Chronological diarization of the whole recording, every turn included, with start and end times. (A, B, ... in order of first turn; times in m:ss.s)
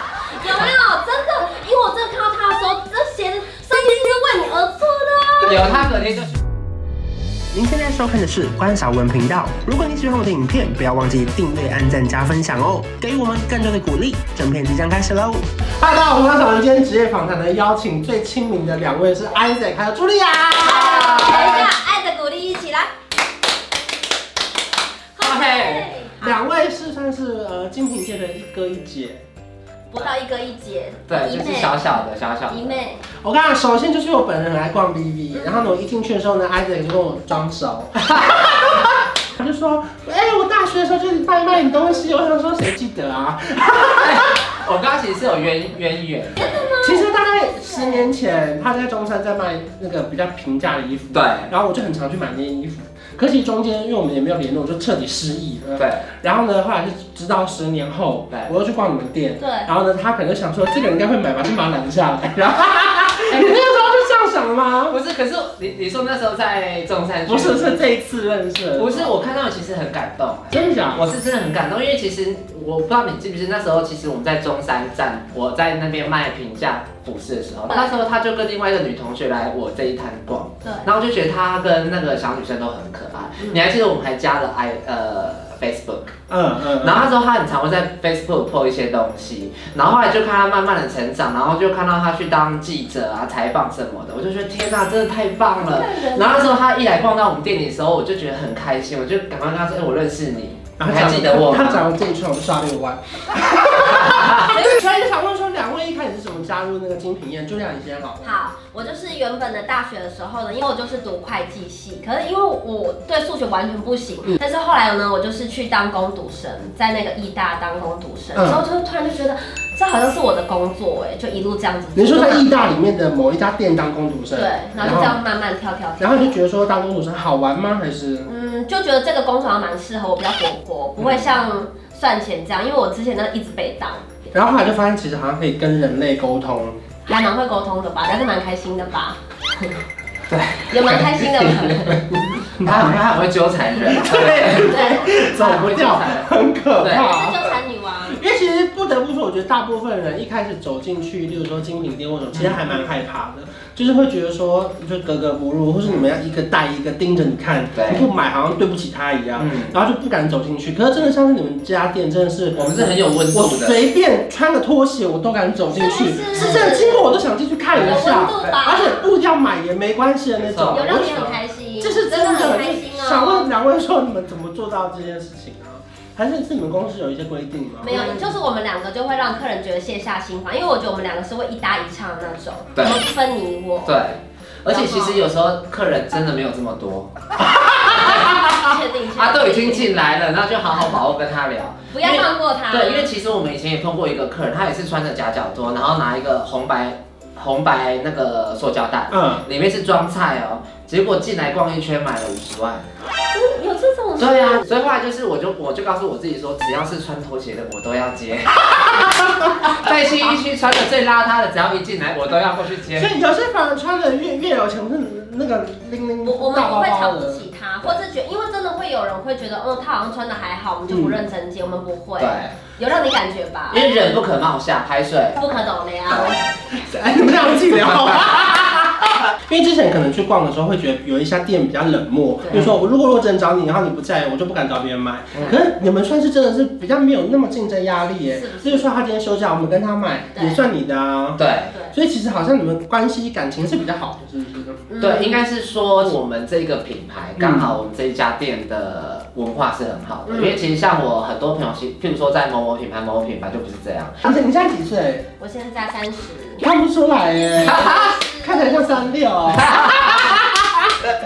0:00.4-0:05.8 A
0:05.4-0:06.4 B
0:05.5-0:05.8 C
0:07.5-0:21.5 C
0:20.6-0:22.9 A
0:20.7-0:21.7 B
0:25.2-0:26.5 A
0:25.2-0:25.9 B
0:26.2-0:29.2 C
0:29.9-0:33.0 A
0:31.1-0:32.8 B
0:33.2-0:44.4 C
0:38.0-0:38.5 B
0:43.8-0:46.7 B
0:46.4-0:48.2 A
0:46.8-1:05.0 C
0:51.1-0:51.5 B
0:55.8-0:56.1 B
0:59.4-0:59.7 A
1:03.3-1:03.8 B
1:04.9-1:07.8 B
1:07.3-1:09.2 C
1:08.8-1:26.2 B
1:10.5-1:11.1 C
1:17.7-1:18.0 A
1:20.6-1:20.9 A
1:26.3-1:27.0 C
1:26.8-1:41.9 B
1:35.6-1:36.6 A
1:40.8-1:48.2 C
1:43.8-1:44.5 B
1:44.5-1:44.9 A
1:48.2-2:02.6 A
1:58.4-1:58.6 C
2:02.0-2:05.2 C
2:04.4-2:06.4 A
2:06.0-2:08.3 C
2:08.3-2:14.3 A
2:11.0-2:11.3 B
2:14.3-2:16.8 C
2:17.1-2:19.7 A
2:20.3-2:21.7 B
2:20.7-2:22.4 A
2:22.6-2:26.3 B
2:22.6-2:23.0 C
2:23.8-2:58.0 C
2:24.7-2:25.1 A
2:26.8-2:27.2 B
2:26.9-2:28.2 A
2:32.3-2:32.6 B
2:35.8-2:36.1 B
2:37.8-2:38.1 B
2:39.4-2:39.7 B
2:42.5-2:43.9 B
2:45.7-2:47.2 A
2:46.4-2:46.7 B
2:47.7-2:48.6 B
2:47.8-2:49.1 A
2:50.4-2:51.2 B
2:50.7-2:53.5 A
2:57.8-3:04.0 A
2:57.9-2:58.3 B
3:02.8-3:03.0 B
3:03.8-3:07.1 B
3:04.7-3:05.2 A
3:07.5-3:07.9 C
3:07.8-3:22.9 B
3:07.9-3:10.0 A
3:11.9-3:13.1 A
3:19.1-3:19.4 C
3:23.3-3:24.9 A
3:24.2-3:33.1 B
3:29.1-3:29.4 C
3:33.0-3:37.4 C
3:36.2-3:44.2 A
3:40.9-3:41.2 C
3:42.2-3:42.5 B
3:43.7-3:45.5 B
3:45.4-3:46.4 A
3:46.1-3:46.6 B
3:46.7-4:04.8 C
3:47.8-3:48.4 B
3:52.4-3:52.7 A
3:52.5-3:52.8 B
3:55.3-3:55.6 B
3:58.3-3:58.9 A
4:00.4-4:00.6 A
4:01.4-4:01.7 B
4:04.9-4:05.4 A
4:05.0-4:14.2 B
4:07.4-4:07.7 C
4:10.3-4:10.6 A
4:14.2-4:15.2 C
4:15.4-4:16.6 A
4:16.6-4:17.9 C
4:17.3-4:19.2 A
4:17.6-4:18.2 B
4:18.4-4:20.5 C
4:19.5-4:20.7 B